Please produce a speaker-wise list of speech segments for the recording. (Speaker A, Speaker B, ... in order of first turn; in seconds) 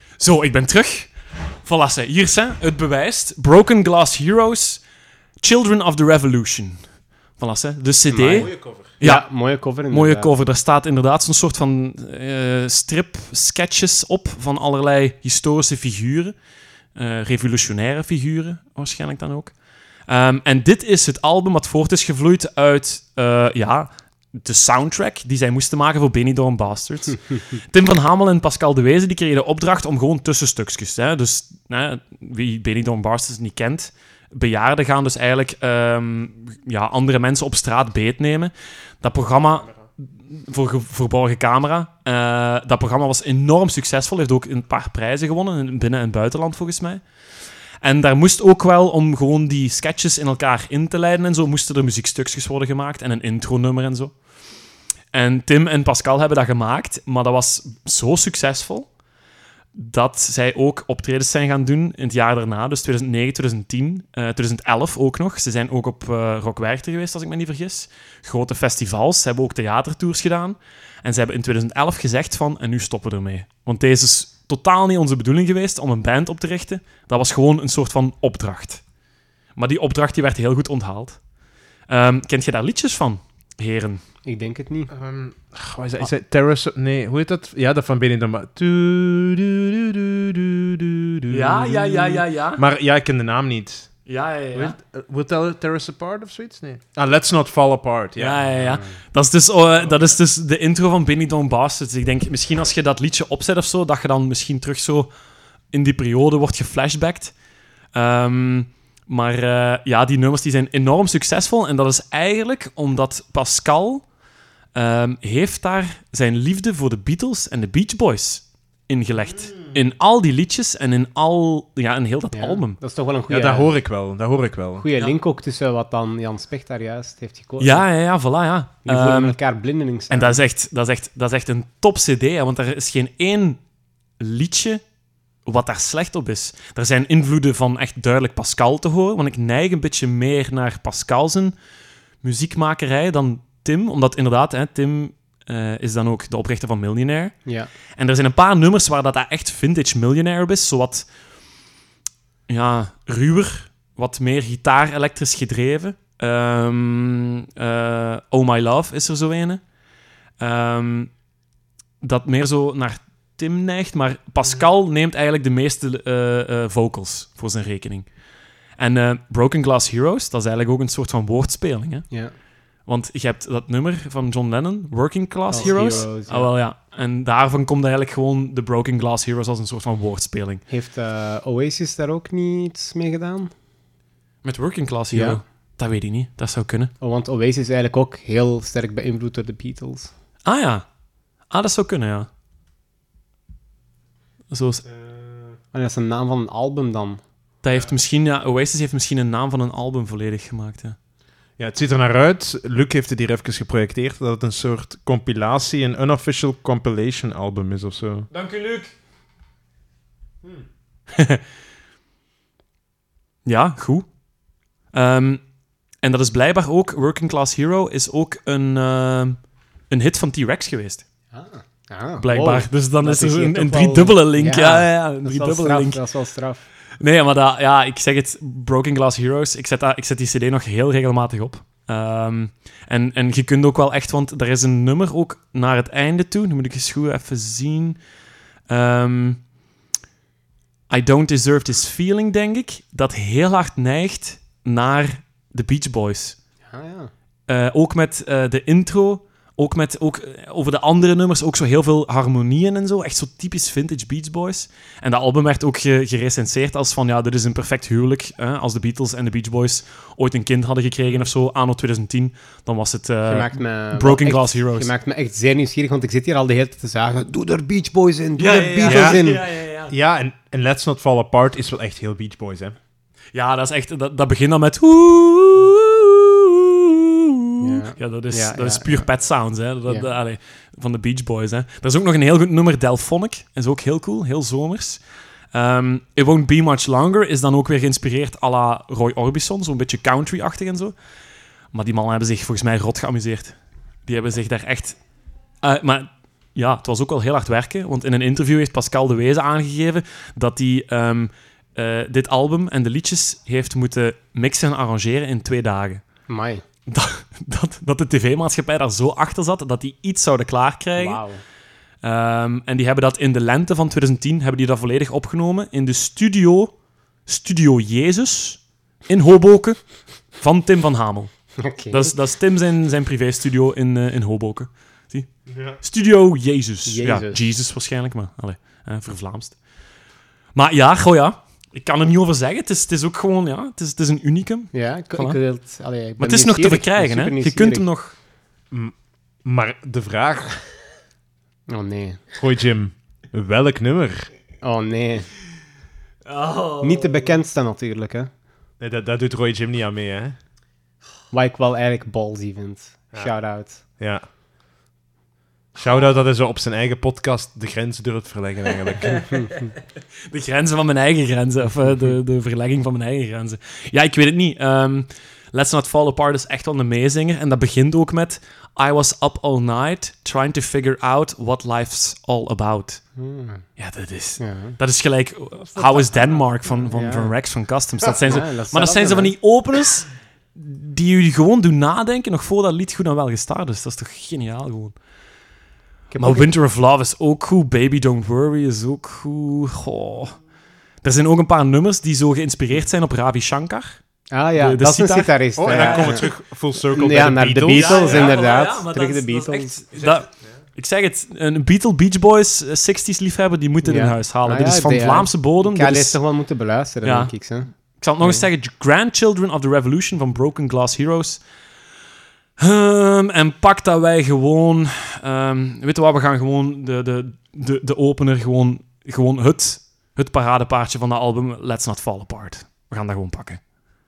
Speaker A: 0.2-1.1, 1.6-4.8, 5.4-6.8, 7.4-16.3, 17.0-19.5, 20.1-39.7, 40.3-47.0, 47.8-54.1, 55.1-58.9, 59.8-78.8, 79.6-81.2, 81.9-84.0, 91.3-92.6, 94.1-94.8, 98.2-105.1, 105.7-107.3, 108.0-114.0, 114.8-122.8, 127.6-129.4, 130.1-133.6, 134.2-134.8, 135.5-141.6, 142.2-147.4, 148.0-151.1, 152.5-159.6, 160.4-161.1, 162.0-168.1, 168.8-172.1, 172.9-180.6, 184.4-186.9, 190.5-190.8, 191.5-192.3, 194.5-194.8, 197.6-201.0, 208.3-208.9, 211.1-211.4, 213.5-214.1, 214.9-215.4, 216.0-221.0, 222.2-226.0, 227.0-238.0, 238.7-239.4, 240.9-246.4, 247.5-264.9, 268.4-269.9, 273.3-285.0, 285.5-290.9, 291.7-293.6, 294.1-295.0, 295.6-306.0, 306.9-311.2, 312.0-316.7, 317.3-319.8, 320.4-321.3, 321.9-325.3, 325.8-329.6, 330.6-335.4, 336.2-338.1, 346.3-347.4, 359.1-359.8, 360.3-373.0, 373.8-385.0, 386.2-390.4, 391.0-394.0, 394.6-396.3, 397.7-406.2, 407.0-407.3, 408.0-411.4, 412.6-423.6
Speaker B: 8.1-10.3, 84.2-84.9, 98.5-98.9, 122.3-123.7, 124.8-127.9, 128.9-130.4, 147.5-147.7, 175.5-176.6, 180.7-183.5, 185.1-185.4, 187.0-190.1, 195.7-197.2, 221.3-226.7, 246.6-247.1, 263.3-269.4, 277.6-279.1, 306.3-306.6, 311.0-311.4, 321.6-322.1, 326.9-327.4, 334.7-337.9, 341.7-342.2, 344.6-345.3, 346.8-348.3, 351.3-353.8, 373.2-373.6, 374.4-374.8, 376.9-377.4, 378.2-379.3, 386.1-386.5, 394.3-399.8, 403.8-408.4
Speaker C: 8.3-8.9, 84.9-93.9, 94.5-98.5, 99.8-100.1, 123.3-124.8, 201.6-208.3, 268.9-269.3, 269.9-272.8, 325.5-325.8, 339.4-340.6, 342.3-344.3, 348.8-350.4, 354.0-354.3, 355.8-359.5, 395.6-398.4, 399.9-400.2